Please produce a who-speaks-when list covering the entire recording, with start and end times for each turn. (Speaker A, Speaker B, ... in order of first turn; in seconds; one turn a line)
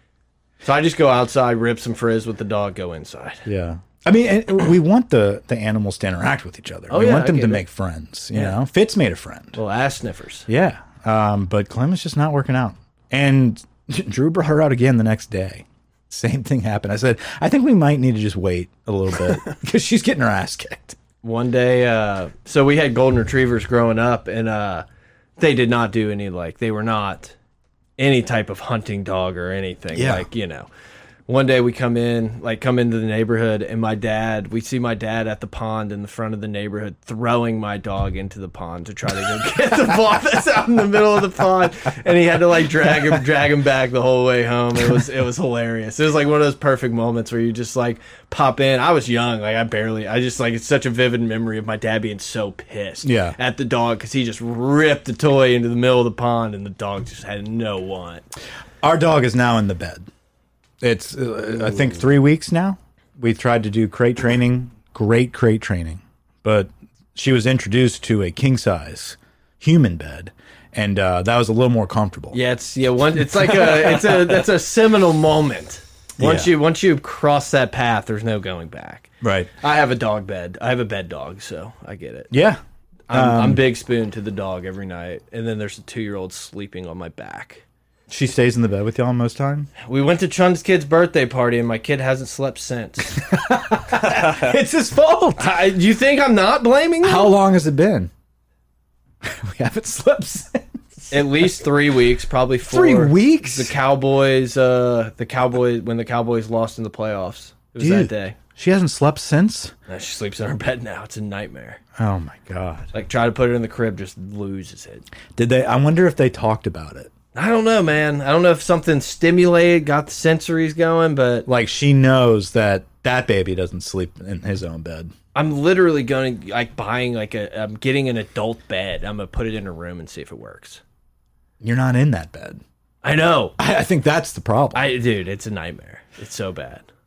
Speaker A: 0.6-3.4
Speaker B: 3.4-9.6
Speaker A: 6.9-7.7
Speaker A: 8.3-8.6
Speaker A: 9.5-10.5
Speaker B: 10.5-21.0
Speaker A: 21.2-24.8
Speaker A: 25.4-27.3
Speaker A: 28.0-30.7
Speaker B: 29.9-30.2
Speaker A: 31.3-58.2
Speaker B: 53.0-53.4
Speaker B: 58.8-60.1
Speaker B: 60.8-72.4
Speaker A: 72.3-82.3
Speaker B: 76.2-76.5
Speaker B: 79.2-79.5
Speaker B: 82.3-82.6
Speaker A: 83.1-87.6
Speaker B: 83.1-83.6
Speaker B: 88.1-89.7
Speaker A: 89.8-93.2
Speaker B: 93.1-95.5
Speaker A: 95.4-97.3
Speaker B: 97.0-98.1
Speaker B: 99.2-101.2
Speaker A: 101.1-108.3
Speaker B: 102.7-103.7
Speaker B: 107.8-109.7
Speaker A: 109.9-111.8
Speaker B: 112.0-112.9
Speaker A: 112.9-115.0
Speaker B: 115.3-117.1
Speaker A: 117.3-121.5
Speaker B: 121.5-125.1
Speaker A: 125.3-130.8
Speaker B: 131.6-132.6
Speaker A: 133.0-133.6
Speaker B: 133.6-134.8
Speaker A: 134.7-136.8